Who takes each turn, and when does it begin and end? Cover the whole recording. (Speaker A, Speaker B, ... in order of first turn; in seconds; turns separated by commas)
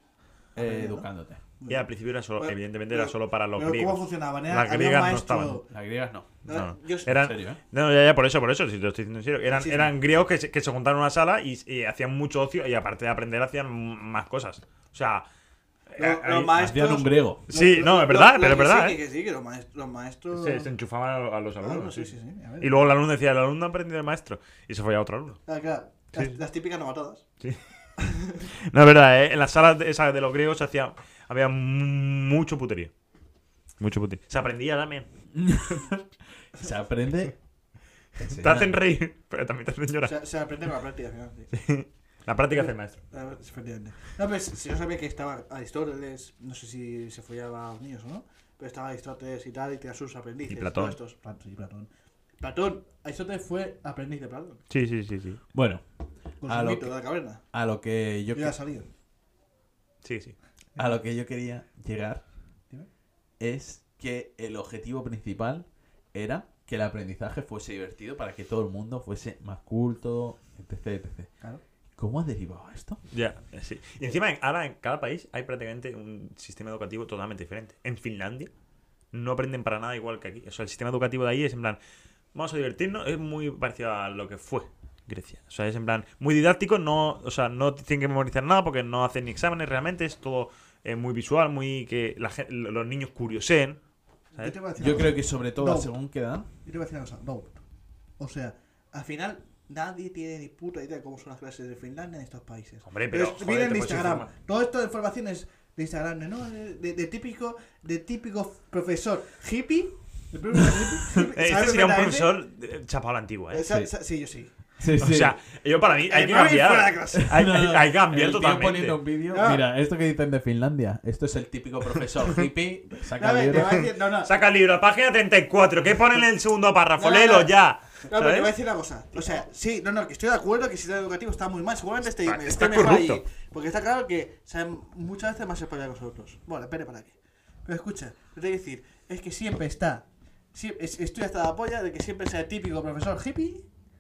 Speaker A: 0.6-1.4, Speaker B: 0.6-1.1, Speaker B: 1.6-5.7, Speaker C: 1.7-5.6, Speaker A: 5.7-6.3, Speaker B: 6.5-7.2, Speaker C: 6.5-15.3, Speaker A: 7.1-7.6, Speaker B: 9.5-9.9, Speaker C: 15.9-16.7, Speaker B: 16.0-20.7, Speaker A: 16.5-17.4, Speaker C: 17.5-19.0, Speaker C: 20.3-25.4, Speaker B: 21.6-22.9, Speaker B: 25.5-27.2, Speaker B: 28.0-28.5, Speaker C: 28.5-32.9, Speaker C: 33.8-35.1, Speaker A: 35.3-36.0, Speaker A: 36.5-37.4, Speaker A: 38.2-38.8, Speaker C: 38.3-40.1, Speaker B: 40.0-41.5, Speaker C: 41.5-43.0, Speaker B: 42.5-51.9, Speaker C: 50.5-51.0, Speaker B: 52.4-54.6, Speaker C: 54.7-55.4, Speaker A: 55.5-55.8, Speaker B: 56.4-57.5, Speaker A: 56.5-56.9, Speaker A: 57.5-58.6, Speaker B: 58.3-58.9, Speaker C: 60.0-60.4, Speaker A: 60.8-62.2, Speaker A: 63.4-71.3, Speaker A: 72.0-73.0, Speaker C: 73.1-78.5, Speaker C: 79.1-81.8, Speaker C: 82.3-93.8, Speaker B: 94.4-95.9, Speaker A: 94.8-96.5, Speaker B: 96.7-97.6, Speaker B: 98.2-112.3, Speaker C: 102.9-104.3, Speaker C: 111.1-113.7, Speaker B: 113.5-114.5, Speaker A: 114.8-115.4, Speaker C: 115.0-119.0, Speaker B: 116.0-117.3, Speaker A: 117.2-123.8, Speaker B: 119.3-119.6, Speaker B: 123.2-124.3, Speaker C: 123.8-128.5, Speaker B: 127.0-127.5, Speaker B: 128.1-143.7, Speaker C: 132.2-133.2